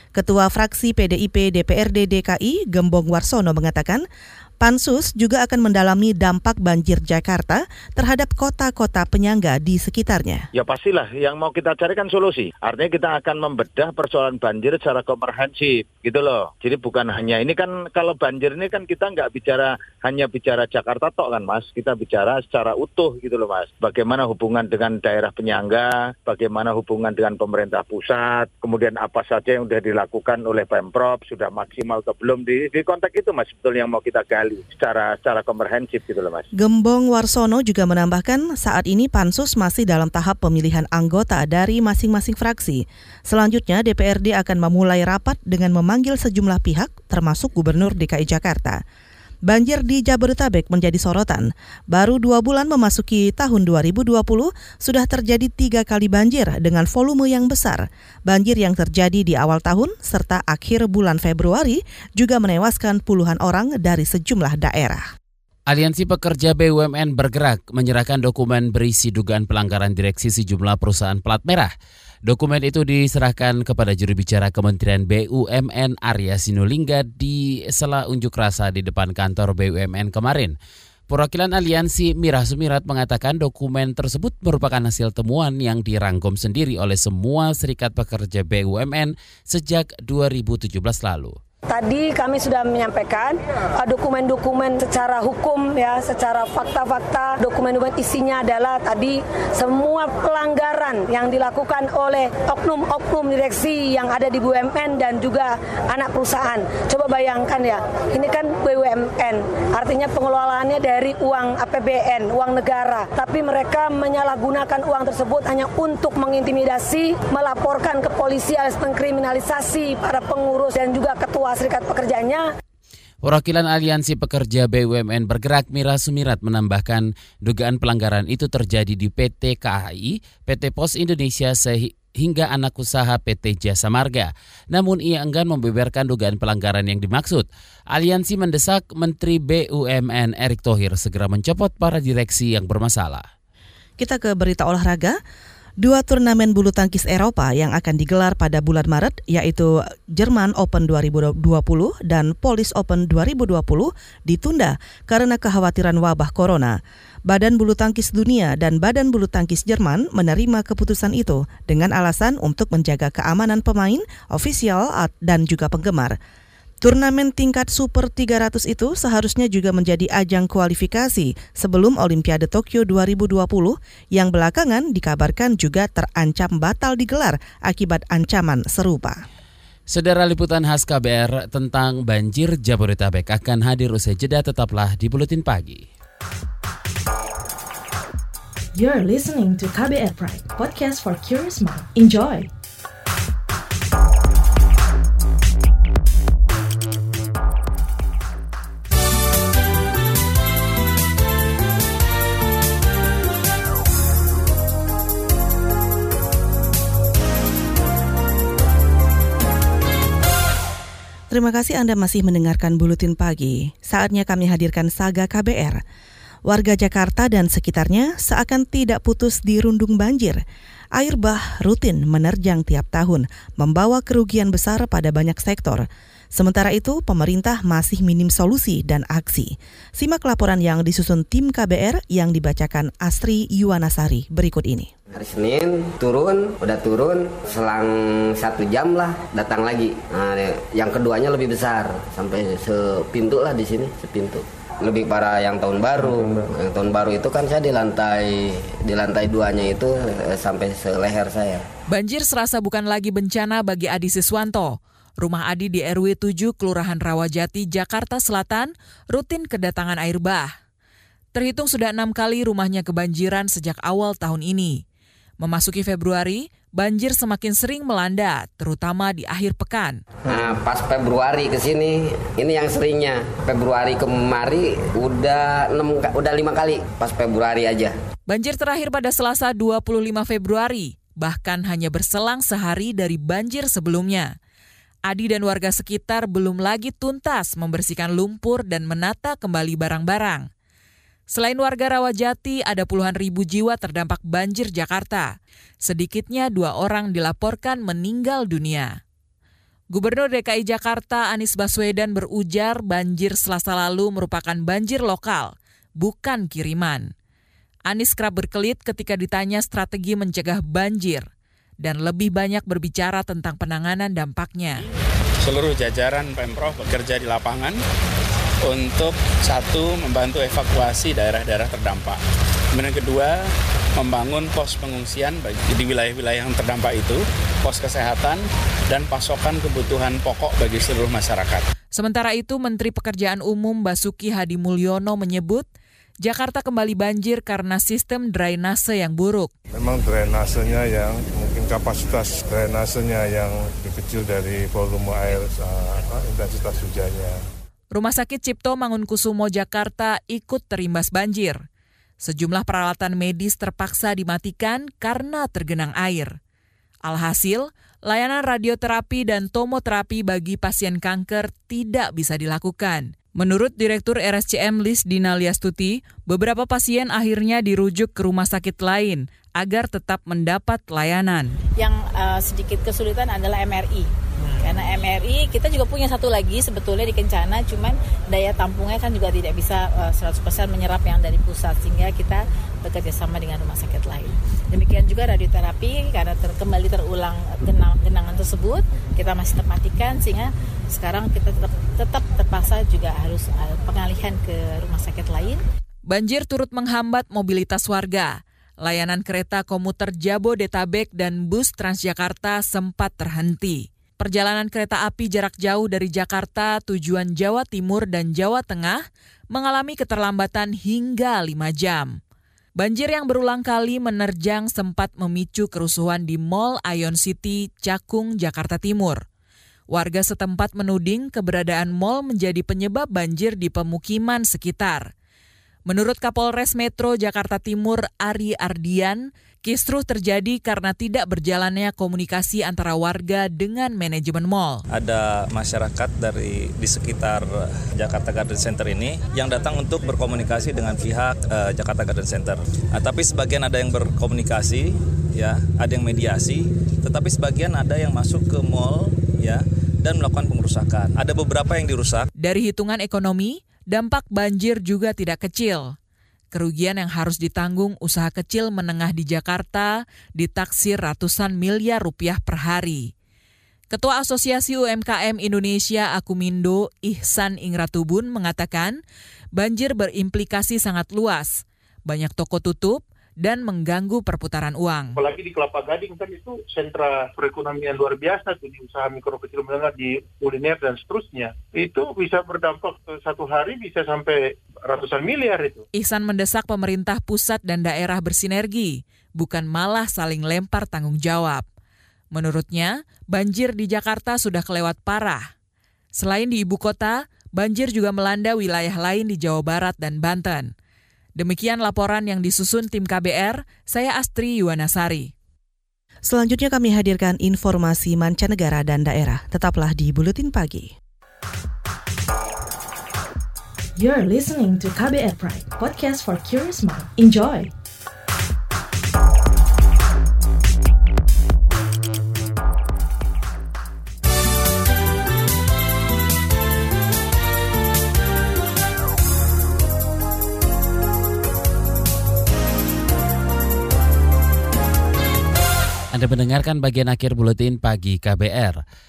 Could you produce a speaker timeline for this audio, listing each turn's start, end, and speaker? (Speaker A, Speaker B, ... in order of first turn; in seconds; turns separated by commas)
Speaker A: 0.1-4.0, Speaker A: 4.6-10.4, Speaker B: 10.5-36.5, Speaker A: 36.5-48.8, Speaker A: 49.5-65.0, Speaker C: 65.7-71.7, Speaker C: 72.2-80.5, Speaker C: 81.1-91.3, Speaker D: 91.7-122.5, Speaker C: 123.2-143.3, Speaker A: 144.0-145.2, Speaker A: 145.8-166.2, Speaker A: 166.8-179.2, Speaker C: 179.9-185.8, Speaker E: 188.7-192.5, Speaker A: 211.3-215.8, Speaker A: 216.4-220.4, Speaker A: 220.9-234.9, Speaker F: 235.1-251.6, Speaker G: 251.9-260.5, Speaker G: 261.3-264.8, Speaker G: 265.4-270.0, Speaker F: 270.3-277.9, Speaker G: 278.3-284.3, Speaker G: 285.1-290.5, Speaker G: 291.3-299.0, Speaker G: 299.9-307.1, Speaker G: 307.9-311.3, Speaker G: 311.8-314.8, Speaker H: 315.4-317.8, Speaker H: 318.6-322.2, Speaker H: 322.7-331.6, Speaker G: 331.9-335.7, Speaker G: 336.2-339.5, Speaker I: 339.8-347.4, Speaker G: 347.9-351.6, Speaker G: 352.2-356.4, Speaker G: 357.0-371.6, Speaker J: 371.8-395.6, Speaker G: 396.1-412.2, Speaker G: 412.8-419.2, Speaker G: 419.9-425.1, Speaker G: 425.9-434.8, Speaker K: 434.9-452.3, Speaker G: 452.4-455.9, Speaker G: 456.5-463.1, Speaker G: 463.9-469.0, Speaker G: 469.5-475.2, Speaker L: 475.1-485.8, Speaker G: 485.9-491.6, Speaker G: 492.3-495.5, Speaker G: 496.1-500.7, Speaker G: 501.4-505.3, Speaker A: 506.2-510.9, Speaker E: 514.0-517.7, Speaker C: 536.1-538.8